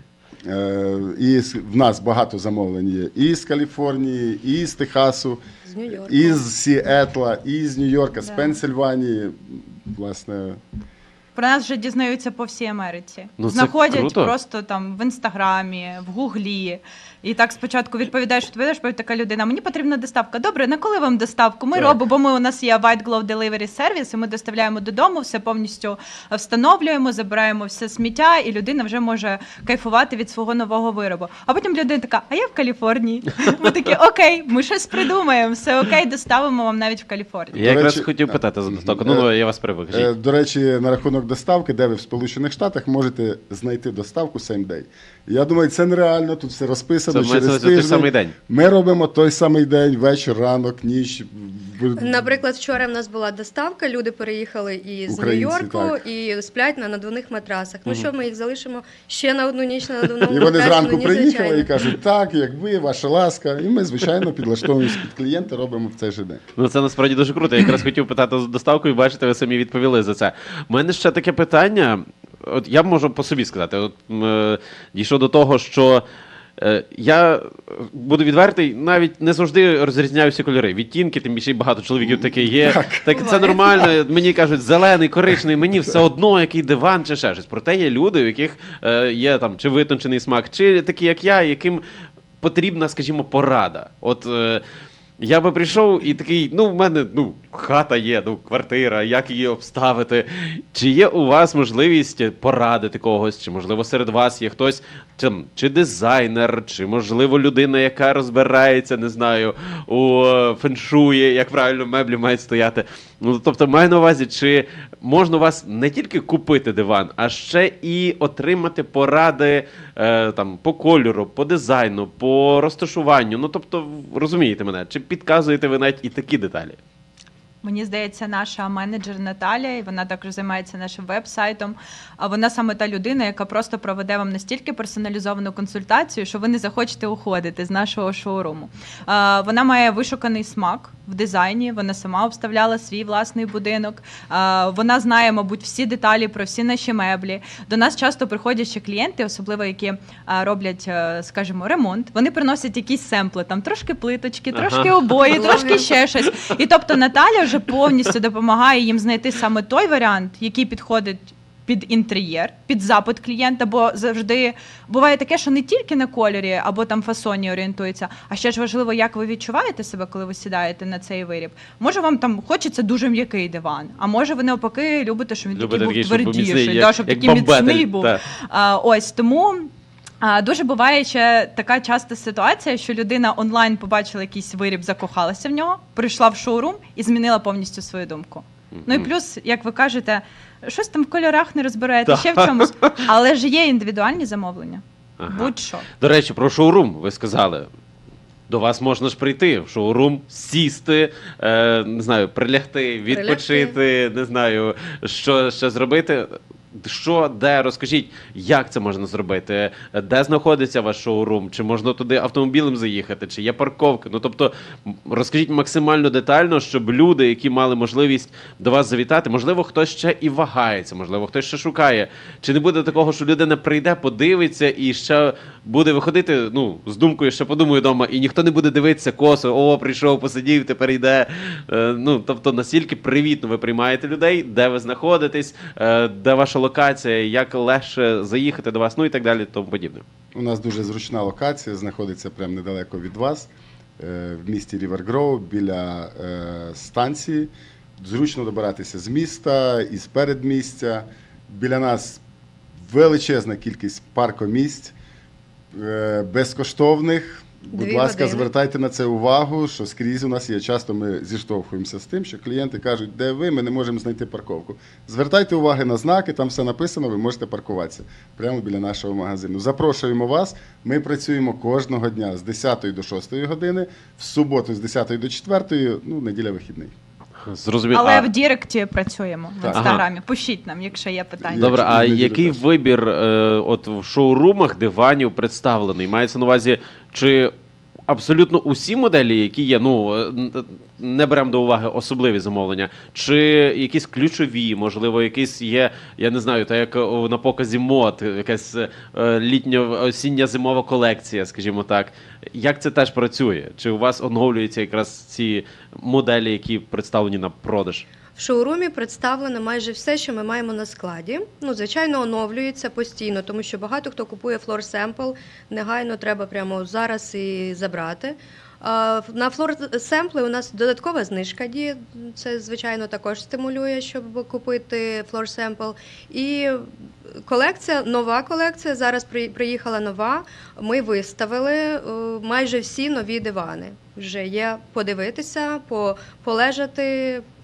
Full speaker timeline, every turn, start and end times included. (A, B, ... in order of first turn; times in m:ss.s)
0:00.4-0:05.4 A
0:05.6-0:06.4 B
0:06.0-0:10.6 A
0:08.2-0:08.5 C
0:11.3-0:37.6 C
0:13.4-0:14.3 D
0:37.5-0:40.1 D
0:37.5-0:39.3 A
0:39.9-0:52.2 A
0:47.1-0:48.3 D
0:52.0-1:01.7 B
0:55.1-0:56.0 A
1:00.3-1:06.4 A
1:06.6-1:16.0 D
1:16.6-1:31.8 D
1:22.0-1:23.9 A
1:32.4-1:34.6 D
1:35.2-2:06.8 D
2:07.6-2:59.7 C
2:34.5-2:35.5 D
2:35.2-2:35.9 B
2:55.6-2:58.2 D
3:00.2-3:15.9 C
3:08.8-3:09.1 D
3:12.1-3:13.0 D
3:15.2-3:17.7 D
3:18.5-4:00.0 D
3:23.1-3:23.8 B
4:00.3-4:12.2 A
4:12.8-4:14.9 A
4:15.7-4:36.9 A
4:17.7-4:18.5 B
4:37.4-4:38.3 D
4:37.9-4:41.7 C
4:39.6-4:39.9 A
4:39.7-4:40.0 D
4:41.5-4:42.6 A
4:41.5-4:47.5 D
4:48.1-5:08.0 D
5:08.4-5:37.4 B